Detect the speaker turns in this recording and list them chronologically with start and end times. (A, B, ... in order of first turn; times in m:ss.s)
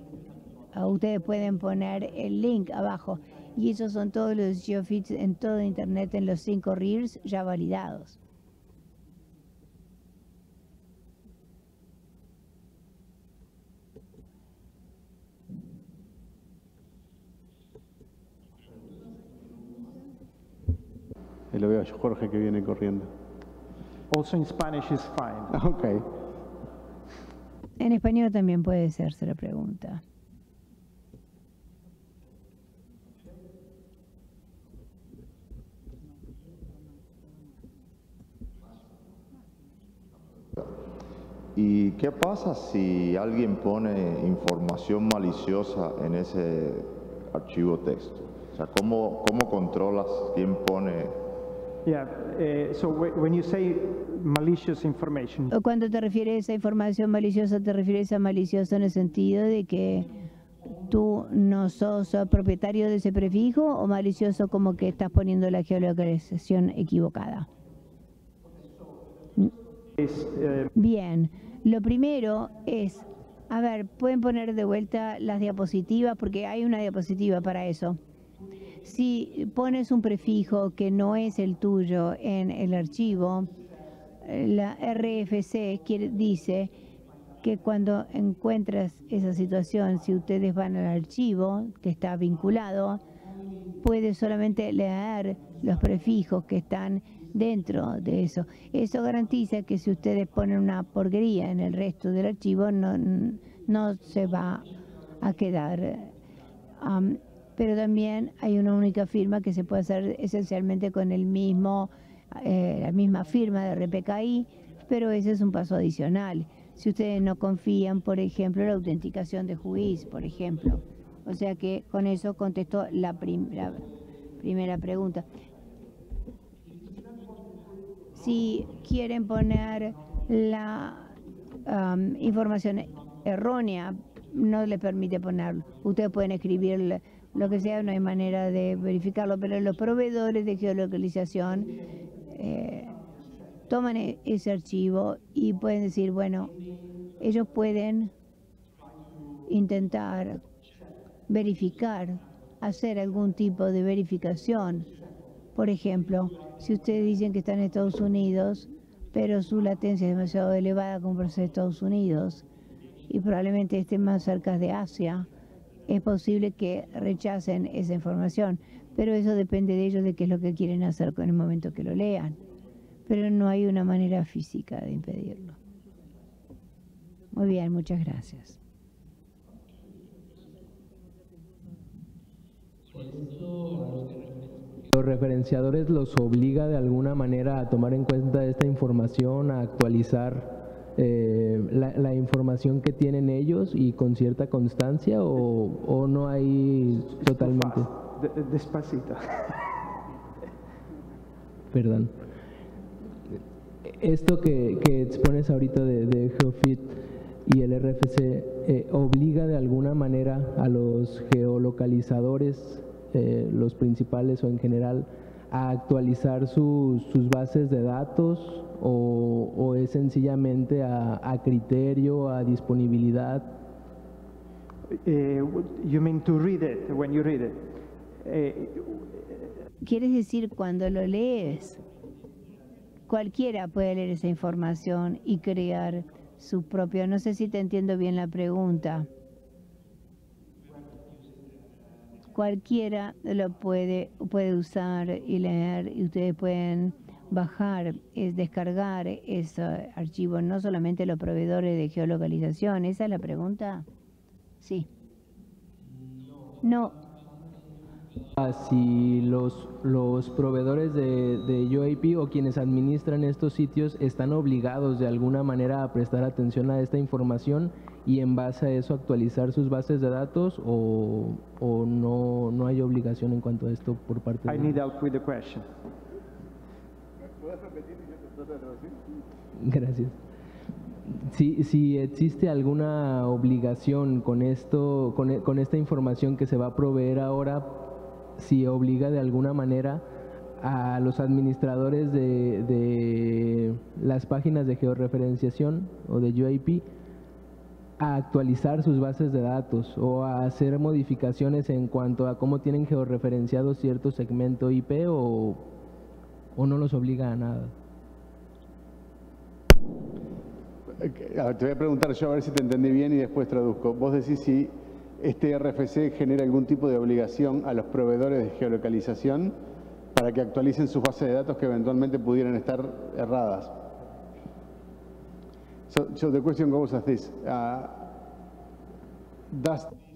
0:00.7-0:08.2 A
0:21.5-0:23.1 B
0:24.1-0:25.5 C
0:25.5-0:26.1 B
0:27.8-0:30.0 A
0:41.5-0:51.1 D
0:51.8-0:55.5 C
0:55.5-1:00.1 A
1:00.9-1:07.5 A
1:10.0-1:10.7 C
1:10.7-1:18.0 A
1:18.8-1:23.5 A
1:24.2-1:26.7 A
1:27.4-1:33.0 A
1:33.8-1:44.7 A
1:45.2-1:46.1 A
1:46.8-2:03.8 A
2:04.4-2:05.2 A
2:08.1-2:11.1 A
2:11.6-2:21.7 A
2:22.3-2:22.9 A
2:23.7-2:26.5 A
2:27.2-2:28.1 A
2:29.5-2:30.4 A
2:31.3-2:34.9 A
2:35.5-2:42.4 A
2:43.1-2:45.3 A
2:45.9-2:52.4 A
2:53.1-2:55.6 A
2:57.3-2:58.6 A
3:02.9-3:17.9 E
3:17.2-3:19.6 C
3:21.7-3:22.1 E
3:23.9-3:43.5 E
3:44.9-3:49.5 C
3:49.8-3:51.8 A
3:53.1-3:59.1 A
4:02.3-4:13.9 A
4:14.6-4:14.9 A
4:16.6-4:17.0 A
4:18.4-4:34.8 E
4:34.5-4:35.7 C
4:38.4-4:38.9 B
4:39.6-4:40.2 E
4:41.1-4:50.0 E
4:50.6-4:56.8 E
4:58.0-5:05.6 E
5:06.5-5:07.7 E
5:11.0-5:19.5 B
5:20.1-5:23.7 B
5:25.9-5:28.1 B
5:29.5-5:29.9 B